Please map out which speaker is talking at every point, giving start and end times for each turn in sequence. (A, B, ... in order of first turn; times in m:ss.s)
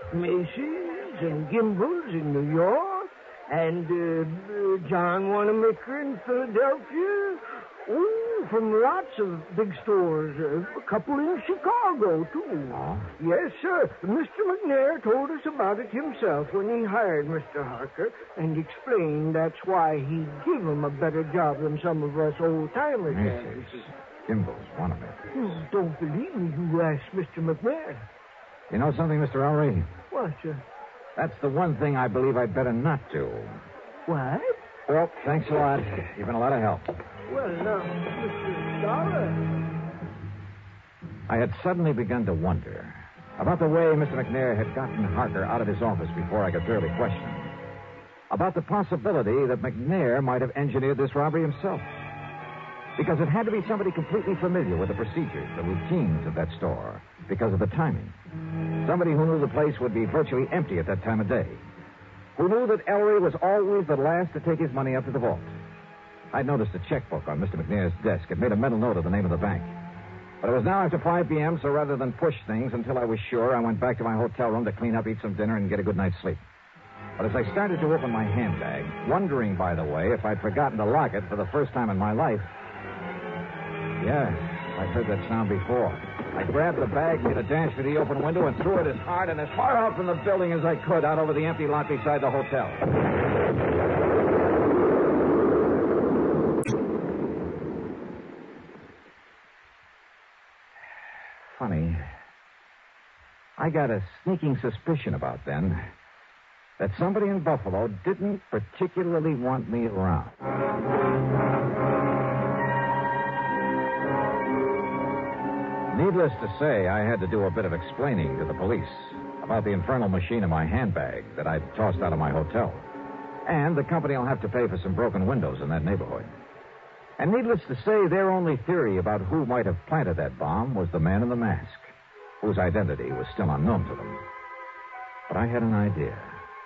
0:00.1-0:23.9 A
0:12.7-0:13.1 B
0:23.1-0:25.6 B
0:25.4-0:28.0 A
0:28.7-0:29.9 B
0:30.1-0:30.6 A
0:31.2-0:33.6 B
0:34.1-0:34.6 A
0:34.9-0:36.9 B
0:37.3-0:39.6 A
0:41.3-0:47.5 B
0:48.3-0:51.9 B
0:53.0-0:58.2 B
0:58.8-1:01.7 B
1:02.4-1:05.6 B
1:06.3-1:09.7 B
1:10.4-1:16.4 B
1:17.2-1:22.5 B
1:24.0-1:32.8 B
1:41.6-1:42.0 B
1:43.6-1:45.8 B
1:46.8-1:50.4 B
1:55.9-2:02.8 B
2:03.5-2:06.4 B
2:07.2-2:14.2 B
2:15.3-2:16.4 B